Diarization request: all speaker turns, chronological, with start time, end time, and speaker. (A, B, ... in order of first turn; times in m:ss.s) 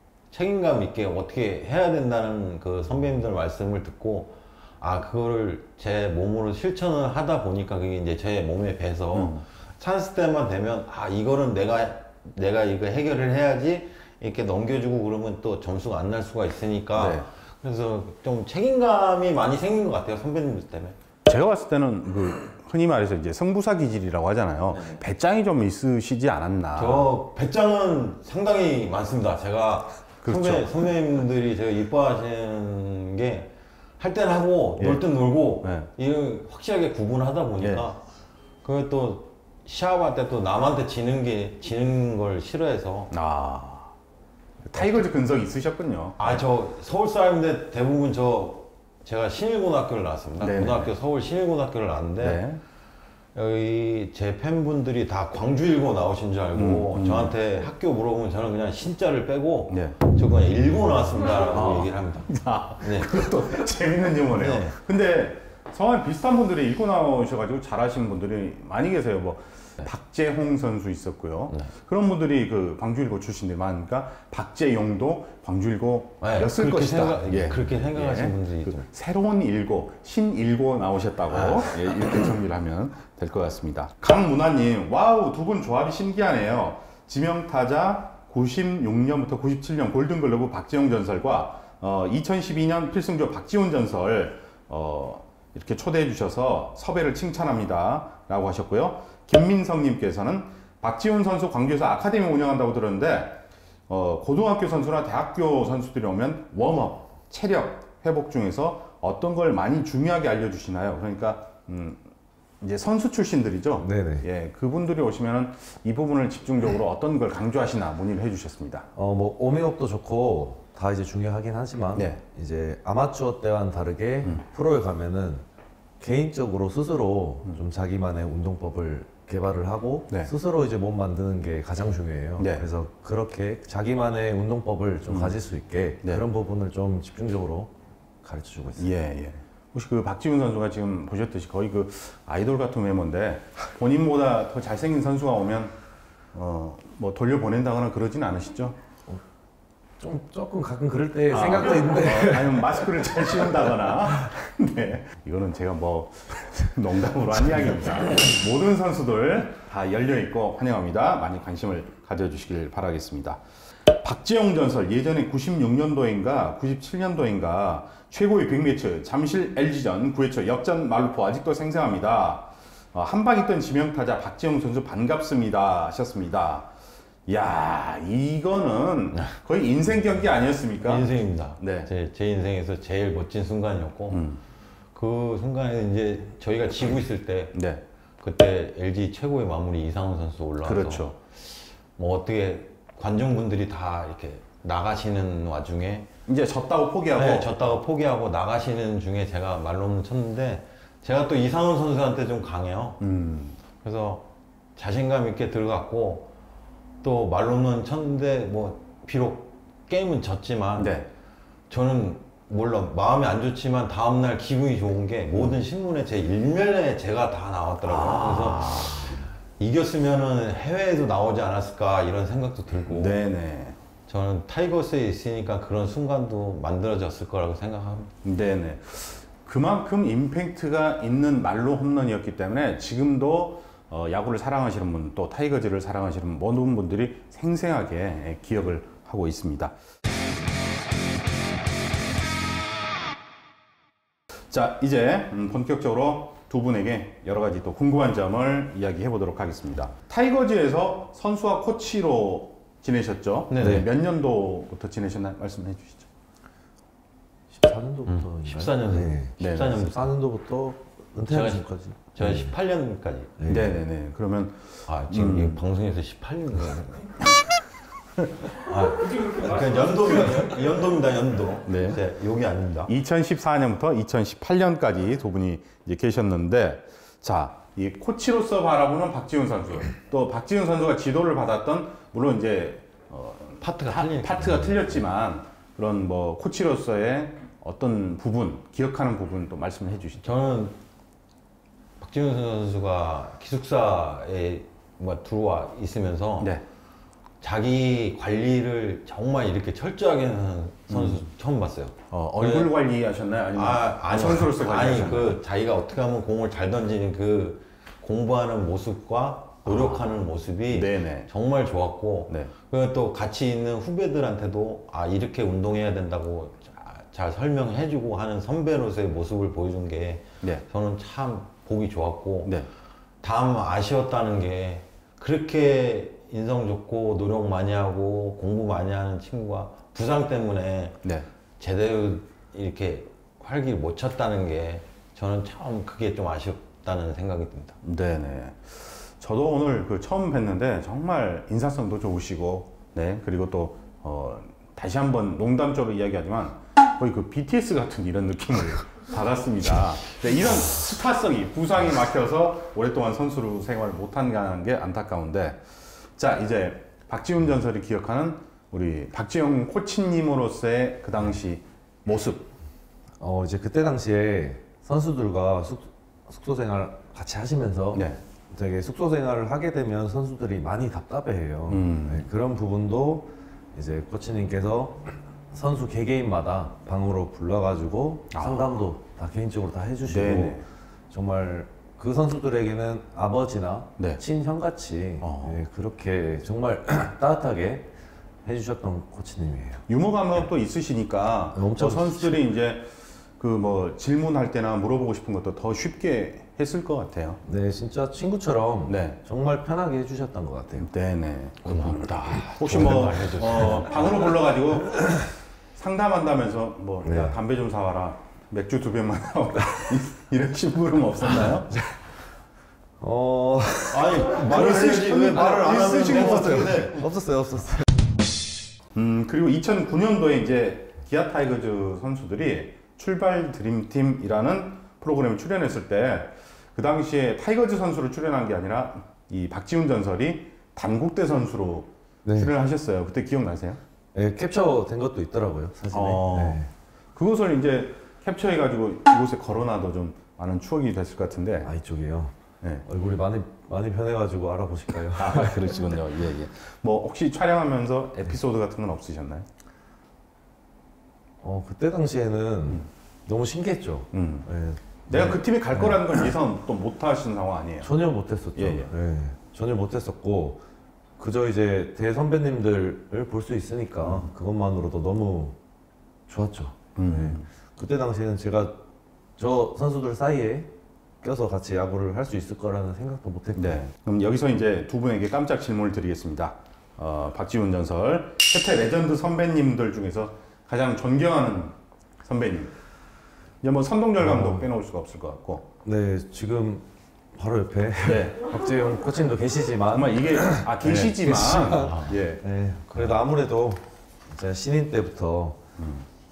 0:00.3-0:21.0 A
0:09.1-0:09.4 B
0:16.9-0:17.3 B
0:21.2-0:27.1 B
0:26.8-0:38.0 A
0:30.2-0:30.7 B
0:34.8-0:35.0 B
0:35.6-0:35.9 B
0:37.6-0:37.8 B
0:38.6-0:43.1 A
0:43.1-0:43.9 B
0:44.6-0:46.4 B
0:44.7-0:45.0 A
0:46.2-0:52.4 A
0:50.4-0:50.9 B
0:52.2-0:52.6 B
0:53.3-1:03.1 A
0:56.5-0:57.3 B
0:59.7-1:00.0 B
1:01.5-1:52.0 B
1:04.4-1:04.8 A
1:16.2-1:18.9 A
1:21.3-1:21.7 A
1:52.6-1:58.9 B
1:53.8-1:54.2 C
1:58.9-2:05.4 C
2:01.9-2:02.2 B
2:06.0-2:17.7 C
2:12.4-2:12.7 B
2:15.1-2:15.4 B
2:18.2-2:18.9 C
2:18.8-2:25.7 B
2:26.3-2:28.8 B
2:30.0-2:33.5 C
2:31.3-2:56.7 B
2:57.3-3:01.9 B
3:00.8-3:04.2 A
3:04.1-3:04.4 B
3:04.9-3:07.6 A
3:07.5-3:07.8 B
3:08.2-3:16.1 A
3:10.6-3:11.2 B
3:16.2-3:17.6 B
3:17.1-3:23.0 A
3:23.0-3:23.6 B
3:23.8-3:26.3 A
3:27.0-3:31.0 A
3:30.8-3:31.1 B
3:31.7-3:43.2 A
3:37.8-3:39.2 B
3:42.9-3:43.8 B
3:44.1-3:48.1 A
3:48.2-3:59.7 B
4:04.5-4:16.1 B
4:13.5-4:13.8 A
4:13.6-4:13.9 C
4:17.5-4:22.5 C
4:18.1-4:20.1 A
4:19.4-4:19.8 B
4:21.2-4:23.3 A
4:23.4-4:23.8 C
4:23.5-4:25.6 B
4:24.9-4:27.2 A
4:28.6-4:32.9 A
4:31.7-4:32.0 B
4:32.9-4:50.3 B
4:43.6-4:44.8 A
4:50.2-4:50.8 A
4:52.0-4:56.6 A
4:56.4-4:56.6 B
4:57.4-5:02.7 A
5:00.9-5:01.2 B
5:02.1-5:05.4 B
5:03.6-5:22.6 A
5:09.7-5:10.0 B
5:10.7-5:11.3 B
5:23.2-5:31.0 A
5:31.6-5:37.8 A
5:37.8-6:02.5 B
6:03.2-6:27.9 C
6:07.9-6:08.2 B
6:11.7-6:12.3 B
6:18.3-6:18.8 B
6:20.1-6:20.6 B
6:25.2-6:25.6 B
6:28.4-6:29.8 C
6:29.9-6:37.4 B
6:31.6-6:32.4 C
6:37.4-6:40.9 C
6:38.9-6:39.2 B
6:40.8-6:45.1 B
6:41.6-6:44.2 A
6:42.8-6:43.1 C
6:45.0-6:45.3 C
6:45.7-6:51.8 B
6:47.0-6:47.4 C
6:51.4-6:51.9 C
6:53.0-6:57.9 C
6:53.9-6:57.1 A
6:54.3-6:56.9 B
6:58.9-7:13.8 B
7:12.2-7:12.5 C
7:14.1-7:16.7 C
7:15.9-7:16.6 B
7:17.1-7:21.7 B
7:21.6-7:22.3 C
7:22.8-7:25.7 C
7:25.1-7:29.5 B
7:31.4-7:36.1 C
7:34.1-7:34.5 B
7:35.1-7:37.9 B
7:37.8-7:40.6 C
7:38.6-7:38.9 B
7:41.2-7:45.6 C
7:44.0-7:44.3 B
7:46.3-7:48.8 C
7:47.0-7:47.4 B
7:49.4-7:50.7 C
7:51.2-7:53.8 C
7:53.6-8:02.7 B
8:03.6-8:05.7 B
8:04.2-8:04.7 C
8:05.8-8:15.6 C
8:08.0-8:08.4 B
8:09.9-8:12.4 B
8:11.8-8:12.1 A
8:15.8-8:16.1 B